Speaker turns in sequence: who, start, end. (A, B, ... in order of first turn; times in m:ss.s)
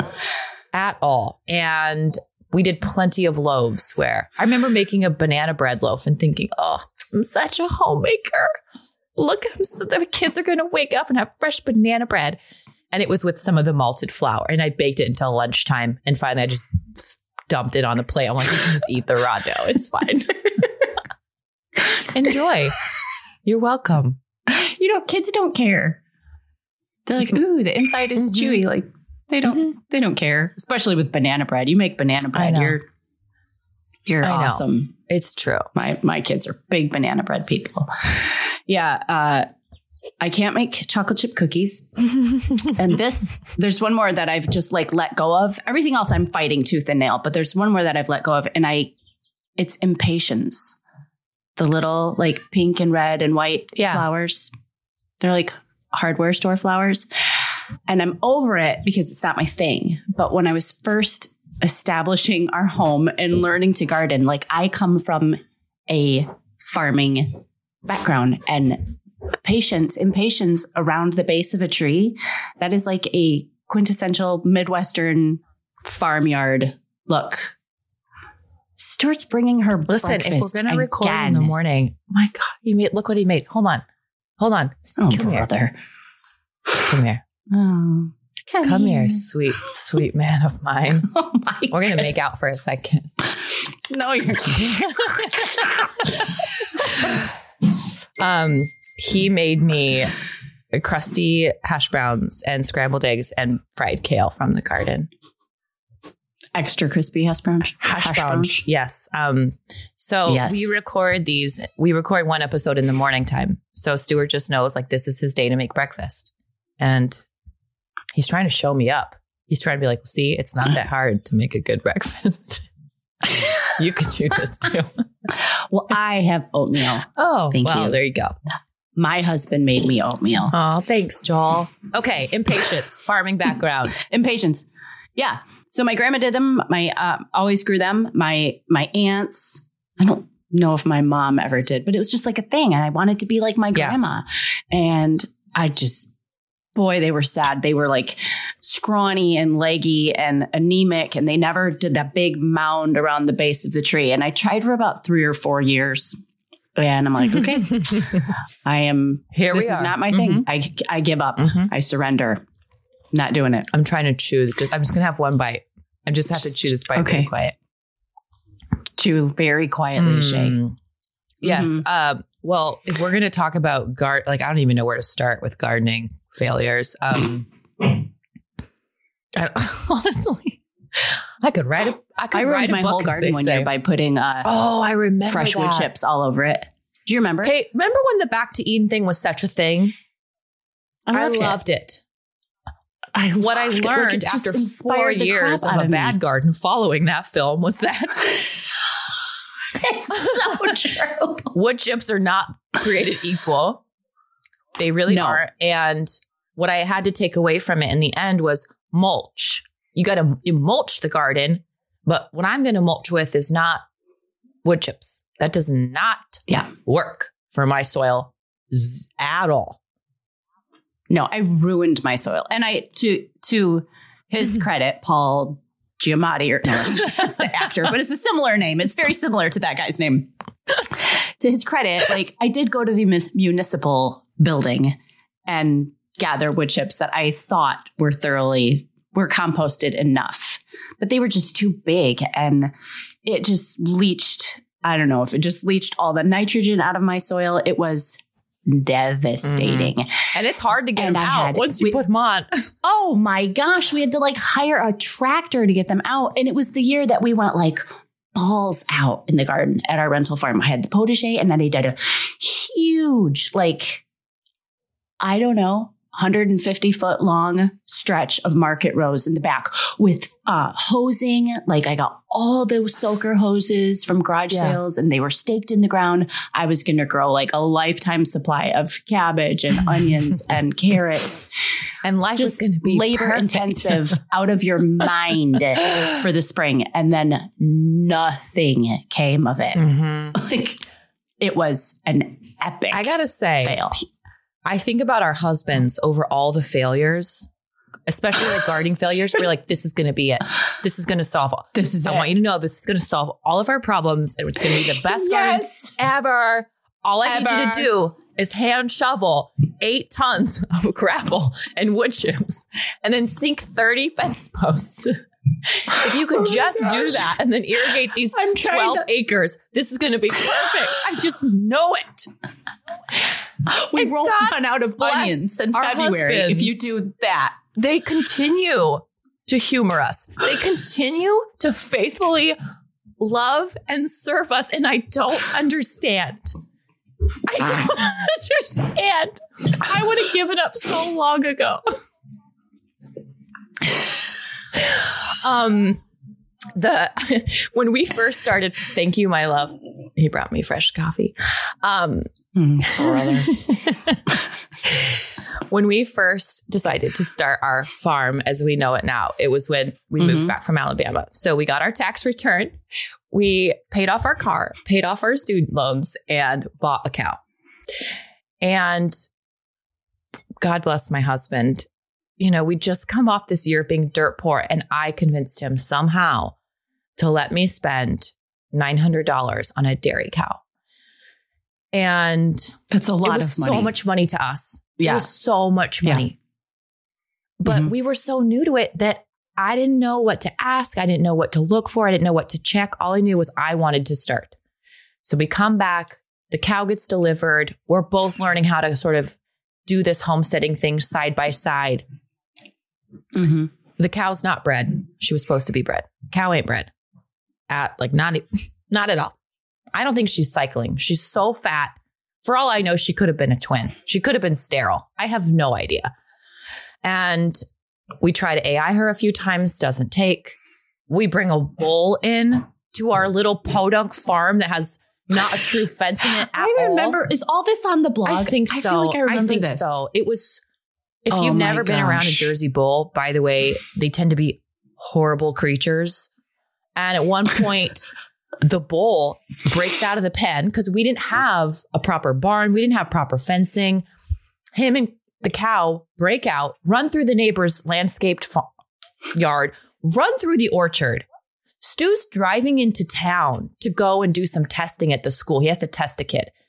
0:00.7-0:08.6 A
0:09.2-0:12.4 A
0:12.9-0:20.7 A
0:22.0-0:22.8 A
0:23.4-0:24.2 A
0:24.5-0:26.0 B
0:27.1-0:32.8 B
0:32.4-0:32.8 A
0:34.1-0:34.9 B
0:34.2-0:35.7 A
0:35.8-0:39.5 B
0:40.2-0:42.1 B
0:42.7-0:48.9 B
0:49.6-0:50.8 B
0:51.6-0:54.5 B
0:53.8-0:54.0 A
0:55.2-0:57.1 B
0:57.9-1:08.9 B
1:09.4-1:17.6 B
1:18.8-1:21.5 B
1:19.9-1:23.8 A
1:24.4-1:25.5 A
1:25.0-1:25.7 B
1:26.8-1:27.2 A
1:27.5-1:29.2 B
1:28.6-1:31.1 A
1:31.1-1:32.1 B
1:31.7-1:33.2 A
1:33.7-1:37.0 B
1:34.6-1:35.4 A
1:38.2-1:40.1 A
1:40.7-1:45.1 A
1:46.6-1:48.5 B
1:47.8-1:57.2 A
1:50.3-1:50.8 B
1:58.1-2:02.6 A
2:03.3-2:04.9 A
2:05.3-2:08.0 B
2:07.1-2:08.4 A
2:09.0-2:10.5 B
2:10.5-2:14.0 A
2:14.0-2:26.1 B
2:26.8-2:36.2 B
2:36.8-2:42.4 B
2:39.3-2:40.5 A
2:41.4-2:41.7 A
2:43.1-2:43.7 B
2:43.7-2:47.6 A
2:47.0-2:47.3 B
2:49.0-2:50.6 B
2:50.0-2:50.8 A
2:51.4-2:58.0 A
2:51.4-2:51.8 B
2:59.4-3:03.7 A
3:02.3-3:04.5 B
3:04.4-3:05.9 A
3:05.3-3:07.5 B
3:07.4-3:09.9 A
3:11.1-3:11.6 B
3:11.1-3:12.0 A
3:13.1-3:18.4 A
3:13.7-3:16.2 B
3:19.7-3:21.5 B
3:20.1-3:20.6 A
3:21.5-3:23.8 A
3:24.8-3:33.8 A
3:25.1-3:25.4 B
3:34.6-3:39.8 A
3:41.1-3:55.0 B
3:55.5-4:02.7 B
4:03.2-4:10.1 B
4:09.4-4:12.7 A
4:11.0-4:12.0 B
4:12.8-4:24.0 B
4:25.2-4:41.5 B
4:34.5-4:34.8 A
4:42.0-4:44.1 A
4:42.4-4:50.8 B
4:49.8-4:50.4 A
4:51.4-4:54.0 B
4:52.9-4:54.0 A
4:54.7-4:57.5 A
4:58.1-5:15.2 A
5:01.8-5:02.3 B
5:04.8-5:05.9 B
5:07.2-5:07.9 B
5:15.7-5:22.3 A
5:16.1-5:17.2 B
5:18.3-5:19.1 B
5:23.6-5:27.6 B
5:23.9-5:27.0 A
5:27.7-5:32.6 A
5:33.2-5:36.6 A
5:37.5-5:42.0 A
5:44.7-5:46.0 A
5:46.8-6:02.8 A
5:52.6-5:53.5 B
6:00.2-6:00.5 B
6:03.3-6:07.4 A
6:08.6-6:09.2 A
6:10.6-6:11.9 A
6:12.4-6:16.6 A
6:17.2-6:20.6 A
6:21.9-6:26.4 A
6:22.9-6:23.9 B
6:25.0-6:25.3 B
6:27.6-6:34.6 A
6:35.2-6:42.0 A
6:43.4-6:43.7 B
6:44.0-6:46.9 A
6:47.7-6:49.4 A
6:49.9-6:56.1 A
6:57.0-6:57.6 A
6:58.2-7:00.6 A
7:01.1-7:07.2 A
7:06.4-7:10.0 B
7:08.3-7:10.6 A
7:11.2-7:16.3 A
7:11.3-7:12.5 B
7:17.0-7:18.1 A
7:18.6-7:24.1 A
7:24.7-7:28.7 A
7:29.3-7:31.3 A
7:31.8-7:36.5 A